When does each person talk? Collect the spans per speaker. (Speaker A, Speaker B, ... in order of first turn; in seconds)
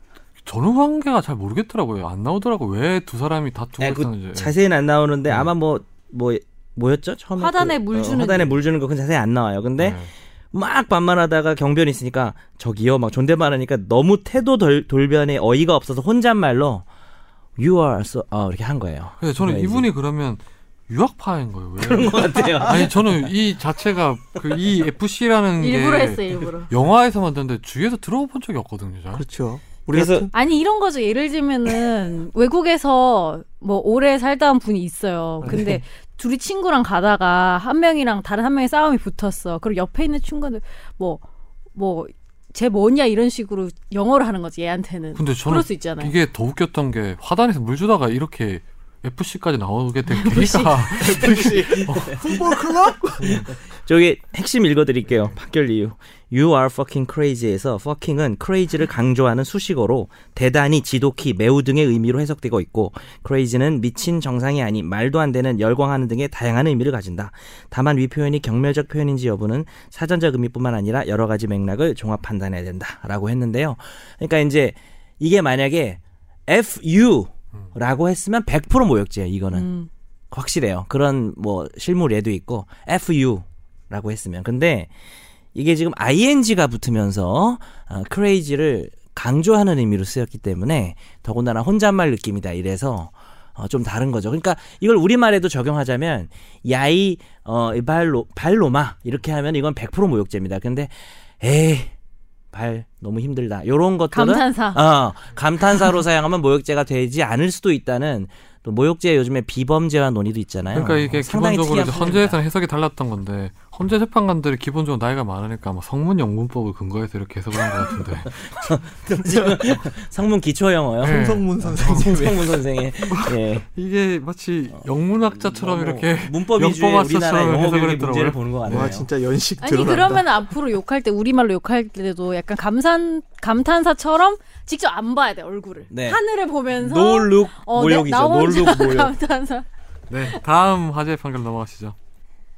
Speaker A: 0.4-4.5, 9.8-10.1, 19.2-29.2, 45.2-52.2, 110.7-118.3, 121.0-122.3, 123.1-128.9, 140.1-141.9
Speaker B: 3.8-16.9, 17.6-19.9, 21.8-22.9, 29.9-30.3, 51.6-52.4, 53.2-79.7, 80.3-84.9, 85.5-101.9, 102.5-112.4, 117.8-123.7, 124.7-129.1, 135.9-136.2, 136.8-139.1
Speaker C: 7.4-8.6, 25.6-26.7, 30.3-41.2, 41.8-46.1, 50.1-50.9, 79.5-79.9, 104.1-104.8, 129.6-139.7
Speaker D: 29.1-30.3, 35.5-35.8, 51.0-53.5, 119.2-119.8, 121.0-122.6, 128.7-130.3